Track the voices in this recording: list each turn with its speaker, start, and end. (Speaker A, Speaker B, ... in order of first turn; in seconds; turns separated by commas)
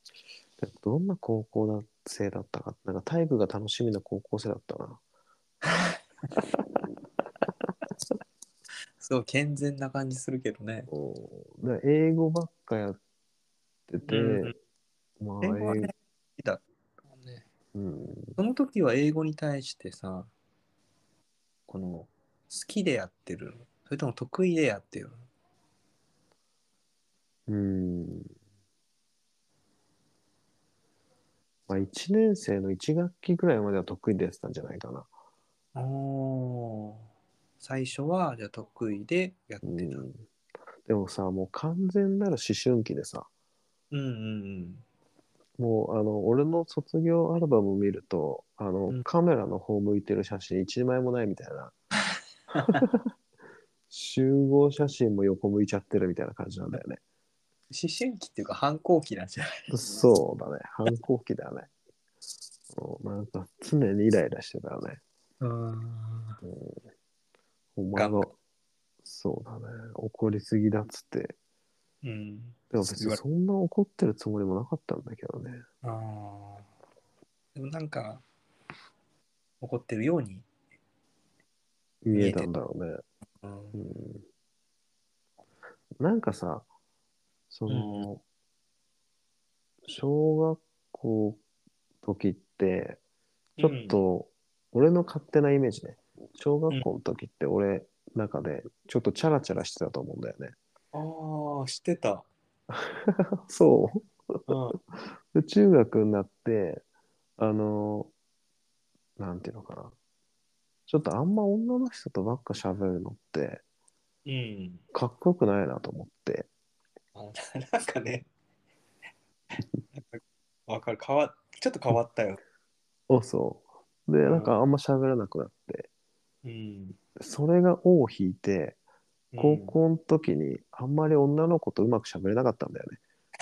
Speaker A: 0.6-5.0, Speaker B: 5.7-6.0, Speaker B: 9.0-10.9, Speaker A: 10.9-13.0, Speaker A: 13.9-14.5, Speaker B: 14.1-14.5, Speaker A: 15.2-15.9, Speaker B: 15.4-17.4, Speaker A: 17.7-18.4, Speaker B: 18.4-20.3, Speaker B: 21.7-25.2, Speaker A: 27.5-28.3, Speaker A: 31.7-35.1, Speaker B: 35.7-37.0, Speaker B: 37.6-40.1, Speaker A: 39.6-40.2, Speaker A: 40.9-43.3, Speaker B: 43.9-44.8, Speaker A: 45.6-51.7, Speaker B: 52.5-52.8, Speaker A: 52.7-53.0, Speaker A: 53.9-57.0, Speaker B: 57.7-59.7, Speaker A: 59.7-61.7, Speaker A: 62.7-65.0, Speaker B: 65.4-66.4, Speaker A: 66.4-66.8, Speaker A: 67.8-68.3, Speaker B: 67.9-68.3, Speaker A: 69.0-71.3, Speaker B: 72.0-73.2, Speaker A: 72.7-75.6, Speaker B: 75.8-76.7, Speaker B: 77.5-78.2, Speaker B: 79.6-80.5, Speaker A: 82.0-83.0, Speaker B: 82.1-82.5, Speaker B: 83.4-83.8, Speaker A: 83.7-84.2, Speaker A: 86.0-86.7, Speaker A: 87.5-88.2, Speaker B: 87.7-88.1, Speaker A: 89.8-91.4, Speaker A: 92.0-93.0, Speaker B: 93.6-94.0, Speaker A: 93.6-100.5, Speaker B: 100.9-102.2, Speaker A: 102.7-104.4, Speaker B: 104.5-104.8, Speaker A: 105.3-106.8, Speaker A: 107.4-108.1, Speaker A: 109.2-109.9, Speaker A: 110.9-113.6, Speaker B: 114.2-114.8, Speaker A: 114.9-116.5, Speaker B: 117.1-118.3, Speaker B: 119.9-122.4, Speaker A: 123.1-125.9, Speaker B: 124.2-124.5, Speaker B: 126.4-127.0, Speaker A: 127.2-128.8, Speaker B: 129.3-129.8, Speaker A: 129.4-133.0